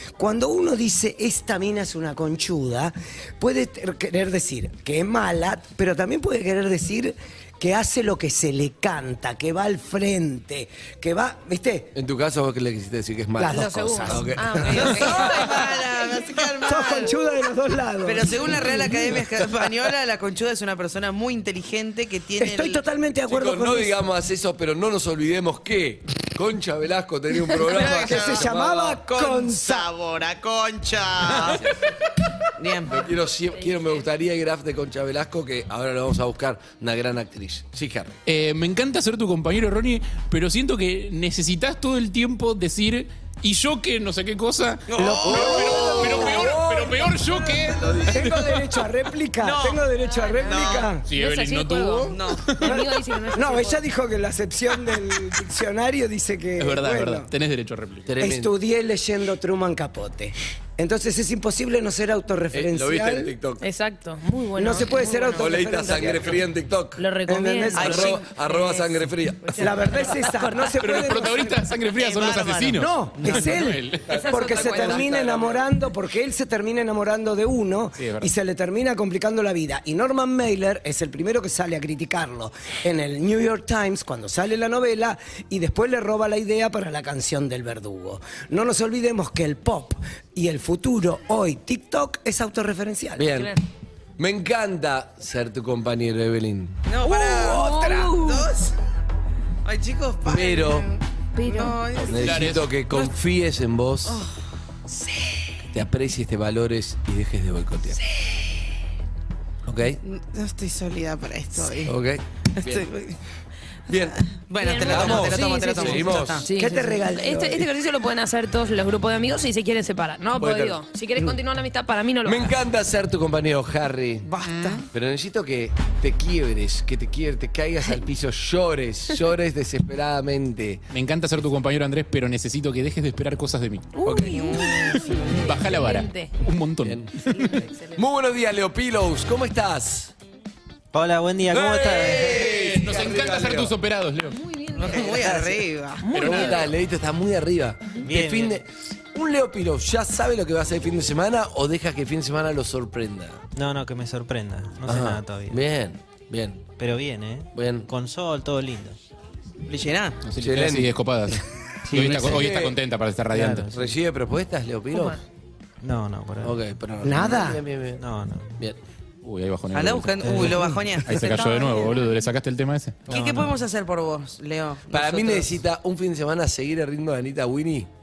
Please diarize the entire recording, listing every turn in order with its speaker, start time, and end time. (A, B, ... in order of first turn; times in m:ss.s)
0:00.2-0:11.9 A
0:12.0-0:15.6 B
0:13.4-0:15.2 A
0:13.4-0:15.7 C
0:14.7-0:17.2 D
0:16.6-0:19.2 A
0:18.0-0:22.8 D
0:22.4-0:24.0 A
0:23.3-0:29.0 B
0:27.6-0:28.5 D
0:27.8-0:29.9 A
0:29.0-0:31.7 D
0:32.6-0:33.1 D
0:32.9-0:38.2 B
0:33.6-0:34.0 C
0:38.3-0:48.6 E
0:44.9-0:46.7 D
0:45.0-0:46.6 A
0:45.2-0:47.0 B
0:47.6-0:48.1 D
0:48.1-0:51.1 A
0:49.4-0:49.8 D
0:49.9-0:53.8 C
0:50.4-0:51.0 D
0:51.0-0:52.7 E
0:52.1-0:52.4 D
0:52.6-0:57.3 A
0:56.6-0:58.1 E
0:58.1-0:58.5 B
0:58.2-1:03.3 A
1:02.5-1:03.6 B
1:03.6-1:05.9 C
1:04.6-1:06.4 A
1:05.4-1:07.0 B
1:07.0-1:10.8 C
1:07.3-1:08.2 A
1:07.8-1:09.6 B
1:07.8-1:08.1 D
1:09.6-1:11.7 A
1:10.8-1:14.1 E
1:12.0-1:13.6 D
1:12.8-1:33.4 A
1:14.1-1:15.6 B
1:14.1-1:15.2 C
1:18.0-1:18.3 E
1:33.2-1:33.5 B
1:34.2-1:36.8 B
1:36.9-1:38.7 D
1:37.1-1:38.5 C
1:39.6-1:42.4 D
1:40.3-1:40.9 B
1:41.4-1:41.8 C
1:42.0-1:44.2 B
1:42.2-1:42.7 E
1:45.7-1:48.0 B
1:49.7-1:50.0 B
1:50.0-1:52.0 D
1:51.8-1:52.9 B
1:52.6-1:53.2 D
1:53.9-1:54.2 B
1:54.4-1:56.5 D
1:54.6-2:02.6 C
1:54.7-1:56.5 B
1:56.5-1:57.7 A
2:00.4-2:01.4 B
2:02.2-2:04.3 B
2:04.3-2:04.8 D
2:04.4-2:04.8 E
2:04.9-2:10.8 B
2:10.9-2:13.9 E
2:14.0-2:16.4 C
2:14.1-2:14.3 B
2:14.2-2:15.3 D
2:15.3-2:17.5 E
2:16.8-2:17.1 B
2:17.2-2:18.0 C
2:18.0-2:20.1 B
2:20.9-2:22.5 F
2:21.5-2:23.7 B
2:22.4-2:24.4 E
2:24.3-2:26.6 C
2:24.7-2:26.4 D
2:26.1-2:26.6 E
2:26.2-2:33.4 B
2:28.0-2:28.6 F
2:33.6-2:35.6 F
2:34.9-2:36.6 B
2:36.8-2:39.0 F
2:37.6-2:37.9 B
2:39.7-2:40.2 D
2:40.2-2:43.7 E
2:40.4-2:42.7 B
2:41.9-2:42.7 F
2:43.3-2:44.0 F
2:43.7-2:45.2 B
2:44.9-2:45.2 C
2:45.8-2:46.6 F
2:46.4-2:48.0 B
2:47.0-2:47.6 A
2:48.0-2:48.6 F
2:49.2-2:50.5 E
2:49.7-2:51.7 D
2:50.2-2:51.0 F
2:51.0-2:53.1 E
2:51.3-2:52.0 C
2:53.1-2:55.6 D
2:53.1-2:53.4 F
2:54.9-2:57.9 B